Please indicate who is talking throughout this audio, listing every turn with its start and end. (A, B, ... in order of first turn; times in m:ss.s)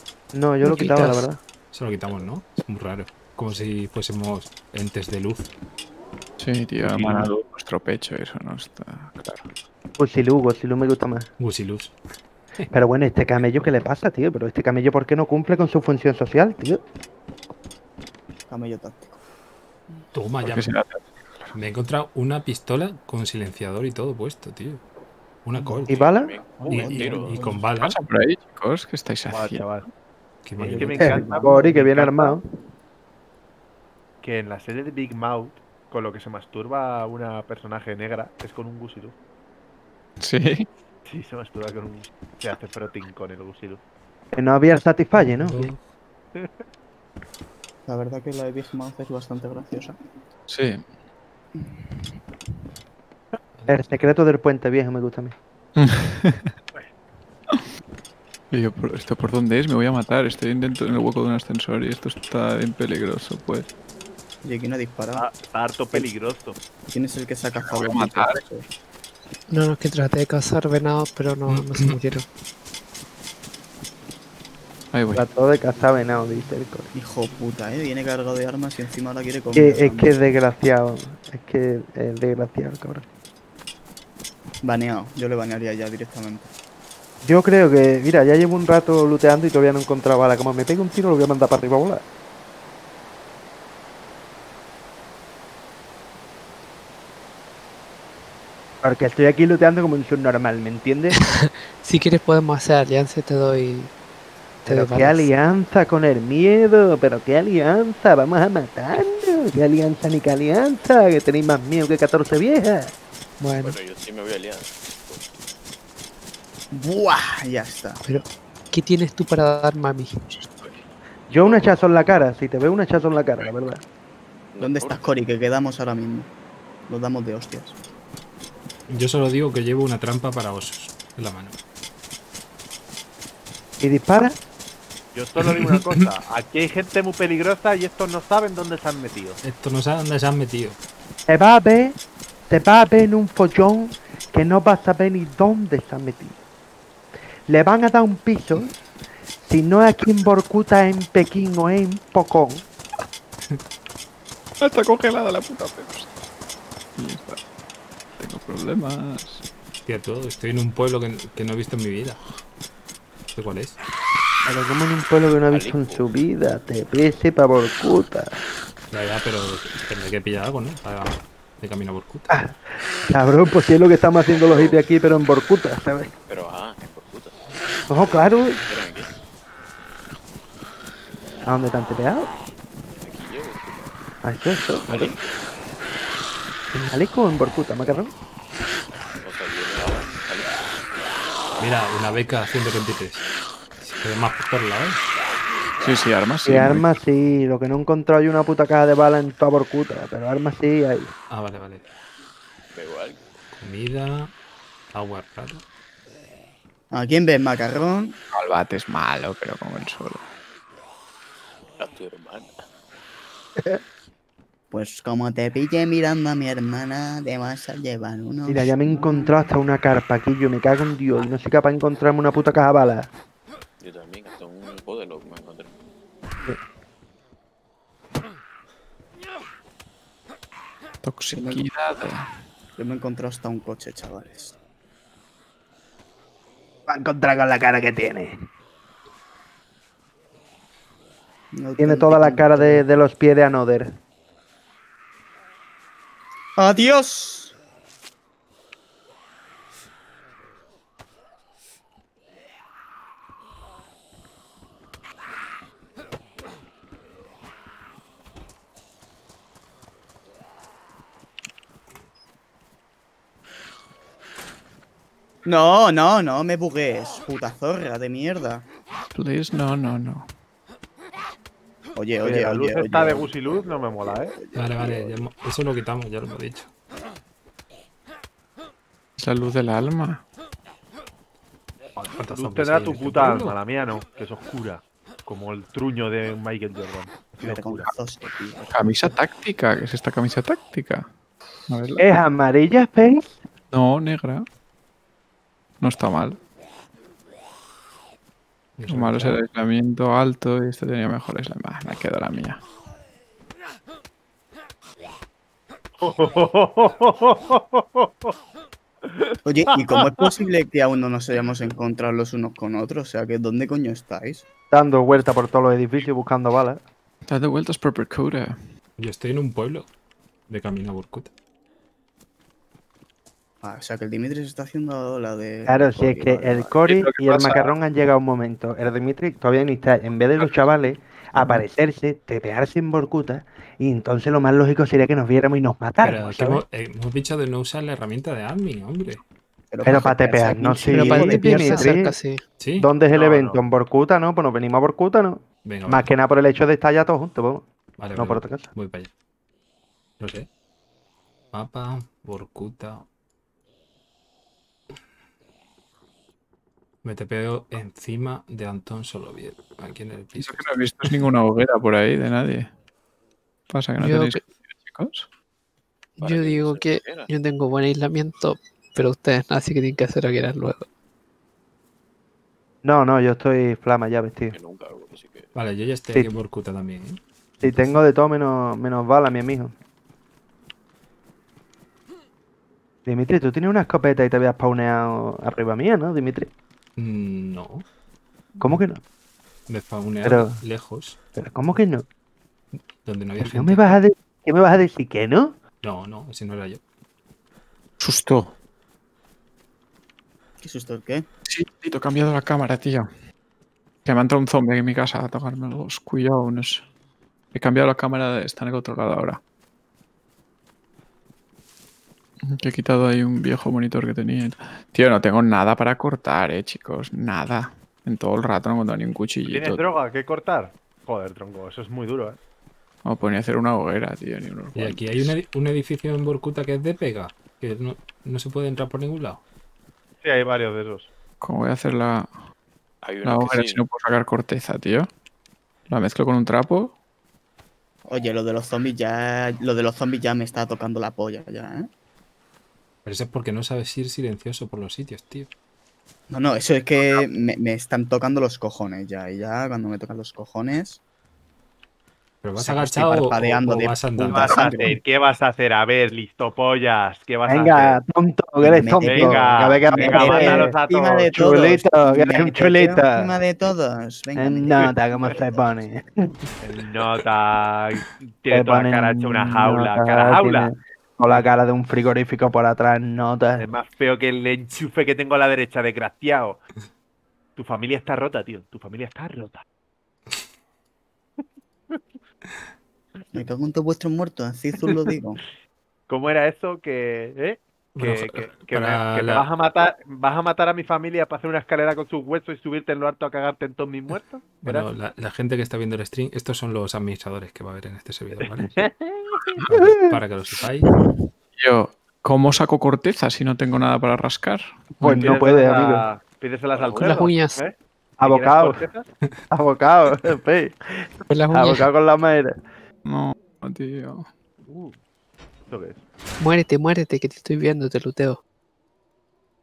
0:00.3-0:01.4 A
0:00.6-0:01.3 B
0:01.7-0:05.5 C
0:06.4-0:09.5 D
0:10.0-0:11.3 A
0:11.4-0:12.0 C
0:12.7-0:16.8 A
0:18.5-0:19.2 E
0:20.1-0:20.7 C
0:20.4-0:21.5 D
0:21.5-0:24.8 C
0:25.4-0:25.9 C
0:25.6-0:25.8 E
0:25.9-0:27.6 F
0:25.9-0:26.4 A
0:26.6-0:27.0 G
0:26.6-0:27.6 E
0:26.7-0:28.0 C
0:27.8-0:29.7 D
0:29.3-0:29.9 G
0:30.4-0:31.1 C
0:30.6-0:32.4 G
0:30.6-0:31.8 E
0:31.0-0:32.4 A
0:34.2-0:39.2 G
0:40.2-0:40.7 D
0:41.1-0:43.8 G
0:44.3-0:45.7 A
0:45.4-0:45.8 C
0:46.4-0:46.6 G
0:47.9-0:50.3 E
0:50.5-0:50.8 D
0:51.6-0:52.1 E
0:53.6-0:54.0 C
0:53.7-0:55.4 A
0:55.8-0:56.5 D
0:58.5-1:03.7 D
1:04.4-1:05.2 E
1:05.2-1:06.6 G
1:06.9-1:08.6 E
1:07.6-1:08.5 D
1:09.5-1:12.2 B
1:11.5-1:12.0 C
1:14.9-1:15.2 D
1:15.2-1:16.9 A
1:16.9-1:20.2 E
1:19.6-1:23.0 A
1:24.6-1:26.5 E
1:27.2-1:32.0 A
1:38.8-1:41.2 A
1:41.2-1:43.9 B
1:44.6-1:45.3 B
1:44.7-1:52.9 A
1:53.4-1:53.8 B
1:53.6-1:55.3 F
1:56.7-1:58.0 E
1:58.0-2:00.2 B
2:00.3-2:00.8 D
2:01.3-2:03.8 A
2:04.5-2:05.1 F
2:04.6-2:06.3 E
2:06.9-2:07.8 E
2:08.9-2:11.6 C
2:13.8-2:14.4 A
2:15.1-2:19.4 G
2:15.4-2:15.8 C
2:19.4-2:20.8 C
2:21.3-2:22.0 A
2:22.5-2:26.4 A
2:27.5-2:28.7 A
2:29.4-2:32.6 A
2:34.6-2:36.1 D
2:37.0-2:37.4 D
2:38.2-2:39.4 D
2:39.9-2:42.2 C
2:43.4-2:43.8 C
2:44.5-2:48.4 A
2:45.5-2:46.1 F
2:48.9-2:52.3 C
2:52.3-2:56.1 A
2:54.3-2:54.8 F
2:56.3-2:59.1 F
2:57.9-2:58.6 A
3:01.5-3:02.3 A
3:03.0-3:04.0 F
3:04.2-3:05.1 A
3:04.8-3:05.4 F
3:06.9-3:08.1 A
3:09.1-3:10.9 F
3:11.6-3:13.2 C
3:13.8-3:15.0 C
3:15.8-3:16.8 D
3:16.5-3:21.1 A
3:21.3-3:21.8 C
3:22.7-3:23.2 F
3:23.5-3:24.3 C
3:24.9-3:25.6 C
3:26.9-3:28.2 E
3:28.3-3:30.2 D
3:31.8-3:32.6 F
3:34.7-3:39.4 E
3:38.5-3:43.1 A
3:43.8-3:45.7 F
3:51.0-3:52.4 D
3:51.3-3:51.6 E
3:52.8-3:54.6 E
3:56.9-3:58.5 A
4:01.5-4:02.8 E
4:01.8-4:04.0 A
4:06.6-4:07.5 E
4:25.4-4:28.7 E
4:29.1-4:30.3 D
4:32.0-4:35.2 E
4:32.2-4:34.4 G
4:34.6-4:36.7 C
4:39.2-4:40.2 D
4:42.0-4:47.9 G
4:42.2-4:43.6 C
4:47.4-4:48.7 E
4:48.6-4:51.1 D
4:51.7-4:52.0 D
4:52.0-4:53.4 A
4:53.7-4:54.5 D
4:55.8-4:56.4 D
4:58.8-4:59.4 C
4:58.9-5:02.6 D
5:06.0-5:08.3 G
5:09.4-5:14.4 E
5:09.9-5:10.2 G
5:14.7-5:16.8 A
5:17.3-5:18.6 D
5:19.0-5:19.9 C
5:20.5-5:21.3 C
5:23.6-5:26.7 E
5:25.7-5:36.6 A
5:26.9-5:27.6 D
5:36.0-5:39.2 C
5:39.7-5:41.8 E
5:39.8-5:42.1 A
5:40.7-5:42.4 B
5:42.6-5:42.9 C
5:42.8-5:47.7 A
5:43.1-5:43.6 G
5:45.6-5:46.1 C
5:48.0-5:49.1 C
5:48.2-5:48.7 A
5:50.2-5:50.5 C
5:51.5-5:53.0 C
5:57.0-6:00.6 C
6:00.4-6:02.7 D
6:03.7-6:05.3 D
6:04.0-6:04.4 B
6:06.2-6:07.3 F
6:06.2-6:10.8 B
6:12.8-6:14.6 A
6:14.5-6:15.5 F
6:15.6-6:17.2 C
6:17.6-6:19.8 A
6:23.1-6:26.5 A
6:27.0-6:27.8 C
6:28.6-6:29.0 A
6:29.7-6:31.2 C
6:30.2-6:30.6 A
6:31.4-6:32.0 A
6:33.0-6:34.0 C
6:33.4-6:35.6 A
6:35.8-6:36.8 C
6:38.0-6:38.5 D
6:40.6-6:41.3 E
6:41.4-6:43.1 D
6:44.0-6:46.8 D
6:47.5-6:49.4 D
6:52.4-6:59.8 D
6:59.5-7:02.4 G
7:03.0-7:05.3 D
7:04.8-7:09.4 C
7:10.2-7:11.1 G
7:11.4-7:12.3 D
7:13.0-7:13.8 F
7:13.2-7:15.1 D
7:15.9-7:17.0 D
7:18.1-7:21.9 E
7:23.0-7:25.5 C
7:26.3-7:31.0 E
7:32.4-7:34.9 C
7:32.6-7:35.0 E
7:34.3-7:38.0 G
7:37.5-7:40.7 A
7:38.6-7:45.0 E
7:39.0-7:41.3 G
7:41.4-7:43.3 A
7:44.4-7:46.3 A
7:46.6-7:50.7 G
7:48.5-7:53.6 A
7:53.6-7:56.6 G
7:57.6-7:59.6 G
8:03.3-8:05.4 E
8:06.1-8:14.9 G
8:08.0-8:09.5 C
8:14.6-8:18.8 C
8:18.4-8:19.1 G
8:19.6-8:20.9 C
8:21.6-8:25.3 D
8:25.0-8:26.1 A
8:25.1-8:29.1 G
8:26.7-8:27.3 F
8:27.0-8:27.6 B
8:28.2-8:28.8 A
8:29.5-8:32.6 A
8:31.3-8:31.9 B
8:33.1-8:34.3 D
8:34.6-8:35.0 G
8:35.7-8:36.0 G
8:36.4-8:38.4 B